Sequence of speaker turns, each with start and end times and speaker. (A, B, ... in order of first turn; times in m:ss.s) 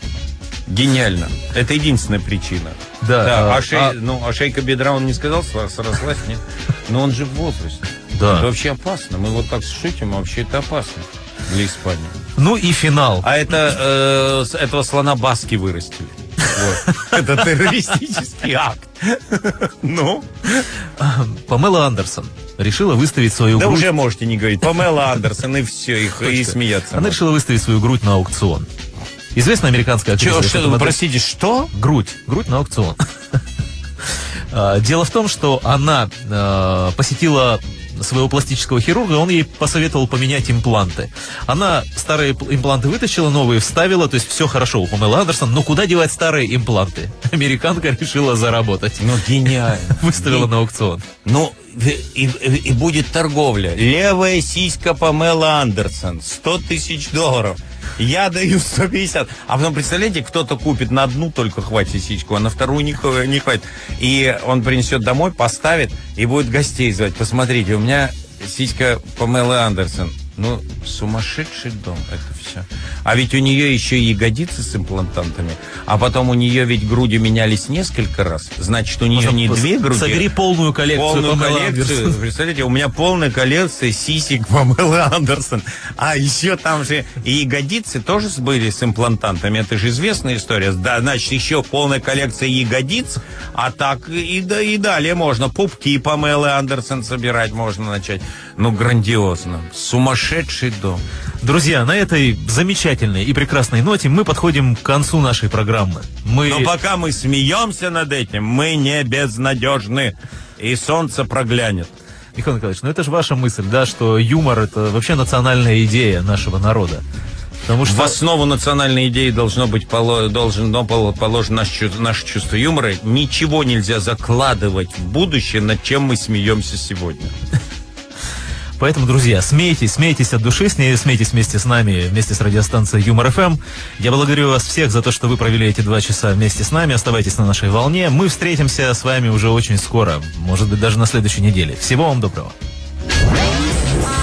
0:00.7-0:12.2 A
0:03.0-0:04.0 B
0:08.1-0:08.5 B
0:12.4-0:13.3 B
0:13.2-0:20.6 A
0:21.0-0:23.9 B
0:23.6-0:27.2 A
0:26.2-0:28.7 B
0:29.3-0:31.0 B
0:30.2-0:31.7 A
0:31.7-0:33.0 B
0:34.5-0:49.1 B
0:49.0-0:50.5 A
0:49.9-0:51.0 B
0:51.2-1:20.3 A
1:19.2-1:22.2 B
1:20.9-1:41.0 A
1:41.4-1:46.7 B
1:46.5-1:51.9 A
1:52.4-1:57.0 B
1:57.6-1:58.2 B
1:57.8-2:07.3 A
2:08.8-2:22.6 B